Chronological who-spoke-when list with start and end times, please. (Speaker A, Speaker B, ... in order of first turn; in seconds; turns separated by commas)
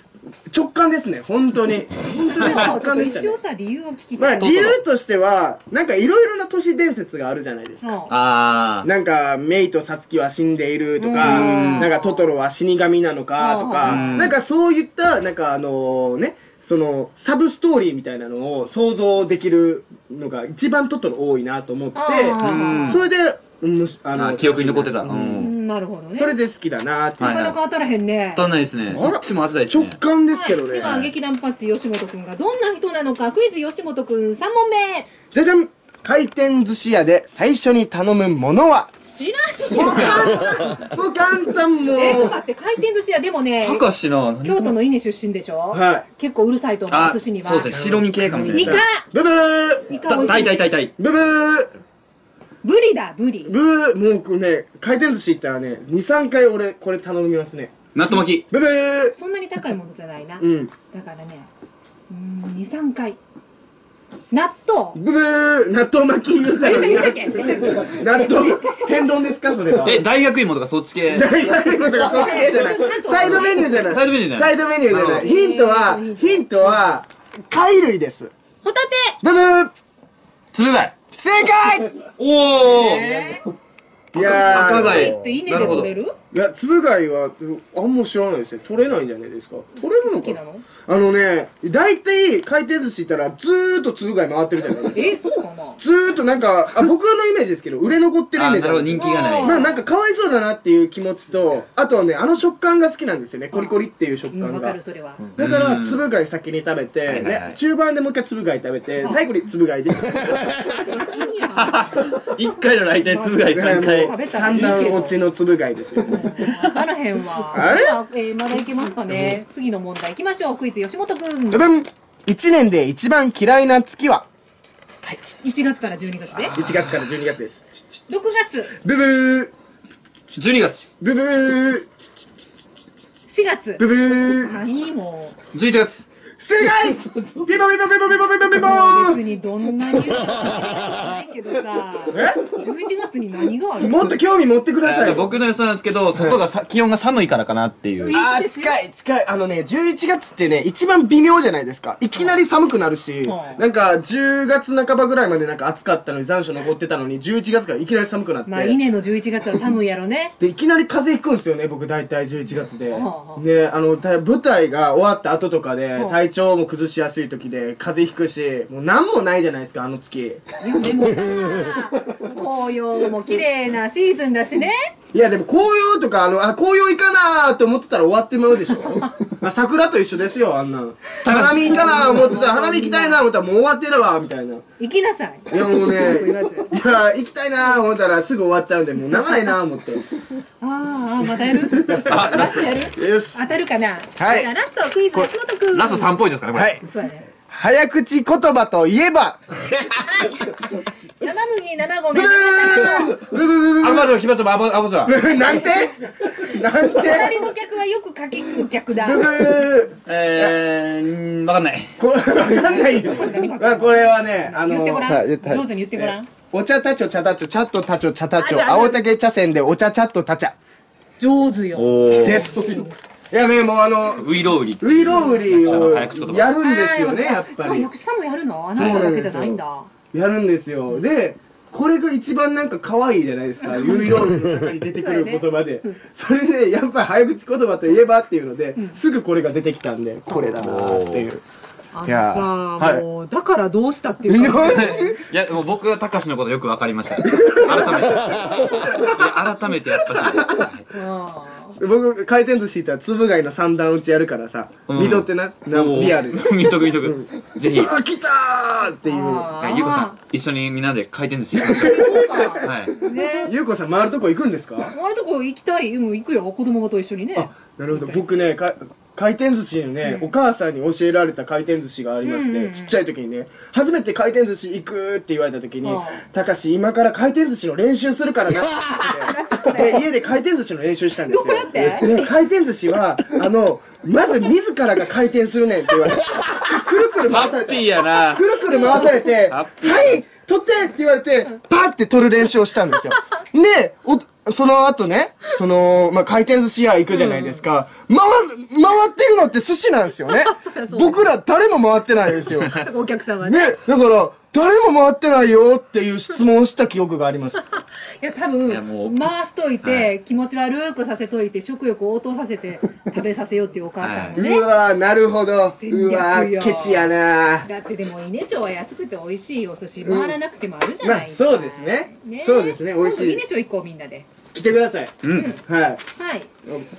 Speaker A: 0.5-3.4, Speaker B: 2.1-4.5, Speaker A: 4.2-8.0, Speaker C: 4.4-4.8, Speaker B: 7.8-8.1, Speaker C: 8.1-8.9, Speaker A: 8.8-25.5, Speaker B: 11.0-12.3, Speaker C: 11.2-11.9, Speaker B: 13.4-14.3, Speaker C: 13.8-14.3, Speaker B: 21.9-23.0, Speaker C: 22.4-23.0, Speaker C: 24.1-25.5, Speaker B: 25.4-26.4, Speaker A: 26.1-27.5, Speaker C: 27.2-27.6, Speaker B: 27.2-28.5, Speaker C: 28.4-30.0, Speaker A: 28.9-31.1, Speaker B: 30.3-35.1, Speaker A: 35.3-38.9, Speaker B: 39.1-40.8, Speaker A: 39.7-42.4, Speaker C: 39.7-40.3, Speaker B: 41.9-43.9, Speaker C: 43.6-44.8, Speaker B: 44.4-47.8, Speaker A: 45.7-46.1, Speaker C: 46.9-48.8, Speaker A: 47.7-50.0, Speaker B: 48.5-49.1, Speaker B: 49.9-50.6, Speaker C: 50.0-50.9, Speaker A: 51.0-51.7, Speaker B: 52.6-53.5, Speaker A: 53.5-59.1, Speaker C: 57.9-58.4, Speaker B: 59.1-61.5, Speaker A: 60.4-60.7, Speaker B: 62.1-63.2, Speaker B: 64.3-65.0, Speaker A: 65.0-70.1, Speaker B: 66.6-69.1, Speaker C: 69.8-71.3, Speaker A: 71.1-78.3, Speaker B: 71.8-73.9, Speaker C: 73.1-75.3, Speaker B: 75.1-76.9, Speaker B: 78.6-79.2, Speaker A: 79.2-79.7, Speaker C: 80.5-81.0, Speaker A: 81.1-82.0, Speaker C: 82.2-83.1, Speaker B: 82.7-83.5, Speaker A: 83.0-83.4, Speaker C: 84.1-85.9, Speaker A: 84.1-95.2, Speaker B: 84.2-86.2, Speaker B: 89.8-90.7, Speaker B: 94.9-95.8, Speaker A: 95.8-110.9, Speaker C: 98.3-99.6, Speaker B: 99.0-99.8, Speaker B: 103.5-103.8, Speaker B: 104.3-105.3, Speaker C: 105.4-106.0, Speaker C: 107.1-107.6, Speaker B: 110.8-112.1, Speaker C: 111.5-114.1, Speaker B: 113.0-115.2, Speaker A: 113.5-116.4, Speaker B: 116.1-121.7, Speaker C: 116.4-116.8, Speaker A: 117.5-118.0, Speaker A: 119.1-119.4, Speaker A: 121.5-124.3, Speaker A: 125.0-125.3, Speaker B: 125.4-126.5, Speaker A: 126.4-127.6, Speaker B: 128.1-128.7, Speaker A: 128.8-129.5, Speaker C: 130.3-130.9, Speaker A: 131.0-132.0, Speaker B: 133.3-135.4, Speaker A: 133.8-134.6, Speaker C: 135.5-136.1, Speaker A: 136.4-139.2, Speaker B: 138.6-144.2, Speaker A: 142.1-142.6, Speaker A: 143.8-145.3, Speaker C: 144.8-148.2, Speaker B: 148.0-148.8, Speaker A: 148.1-158.8, Speaker B: 152.2-152.4, Speaker B: 153.3-153.6, Speaker B: 158.5-160.3, Speaker A: 160.4-172.2, Speaker B: 162.9-163.4, Speaker B: 170.6-174.9, Speaker A: 175.1-184.6, Speaker B: 181.2-183.3, Speaker C: 181.3-181.6, Speaker B: 184.8-186.7, Speaker A: 185.5-190.0, Speaker B: 190.6-196.1, Speaker A: 191.4-193.4, Speaker C: 192.0-192.7, Speaker A: 194.2-194.5, Speaker C: 195.2-196.8, Speaker A: 196.5-196.8, Speaker B: 196.8-197.3, Speaker A: 197.5-200.9, Speaker B: 199.9-200.6, Speaker B: 201.2-203.2, Speaker A: 202.1-204.2, Speaker C: 203.8-205.2, Speaker A: 205.0-207.5, Speaker B: 206.8-209.4, Speaker A: 209.0-210.6, Speaker C: 210.1-211.9, Speaker A: 212.0-220.6, Speaker B: 212.6-216.3, Speaker B: 218.3-219.0, Speaker B: 221.2-222.9, Speaker C: 221.7-222.5, Speaker A: 222.1-227.9, Speaker C: 224.2-226.5, Speaker B: 225.1-226.0, Speaker B: 226.6-229.9, Speaker A: 228.7-229.6, Speaker C: 228.8-229.0, Speaker A: 230.1-241.4, Speaker B: 233.6-234.3, Speaker B: 235.0-236.0, Speaker C: 240.5-241.3, Speaker B: 241.9-245.2, Speaker A: 242.0-243.0, Speaker A: 244.3-245.2, Speaker C: 244.6-250.9, Speaker A: 247.2-249.3, Speaker A: 249.9-250.7, Speaker B: 250.9-251.8, Speaker A: 251.8-259.5, Speaker C: 254.9-257.9, Speaker B: 259.0-260.2, Speaker C: 259.6-262.9, Speaker A: 261.5-264.9, Speaker B: 261.8-263.5, Speaker B: 264.9-268.4, Speaker A: 267.3-302.8, Speaker B: 270.0-270.3, Speaker B: 272.2-273.0, Speaker B: 275.8-276.2, Speaker B: 279.0-280.0, Speaker B: 281.3-282.3, Speaker C: 287.3-290.2, Speaker B: 288.7-289.0, Speaker B: 297.1-297.6, Speaker B: 300.2-301.3, Speaker B: 302.6-303.8, Speaker A: 303.4-307.6, Speaker B: 307.7-314.7, Speaker C: 308.7-309.3, Speaker C: 309.8-310.1, Speaker C: 314.0-314.4, Speaker A: 314.4-317.7, Speaker B: 315.8-317.1, Speaker B: 317.6-324.3, Speaker A: 320.0-320.4, Speaker A: 321.0-323.4, Speaker A: 324.5-326.0, Speaker C: 325.2-325.5, Speaker B: 325.3-325.6, Speaker B: 326.2-326.5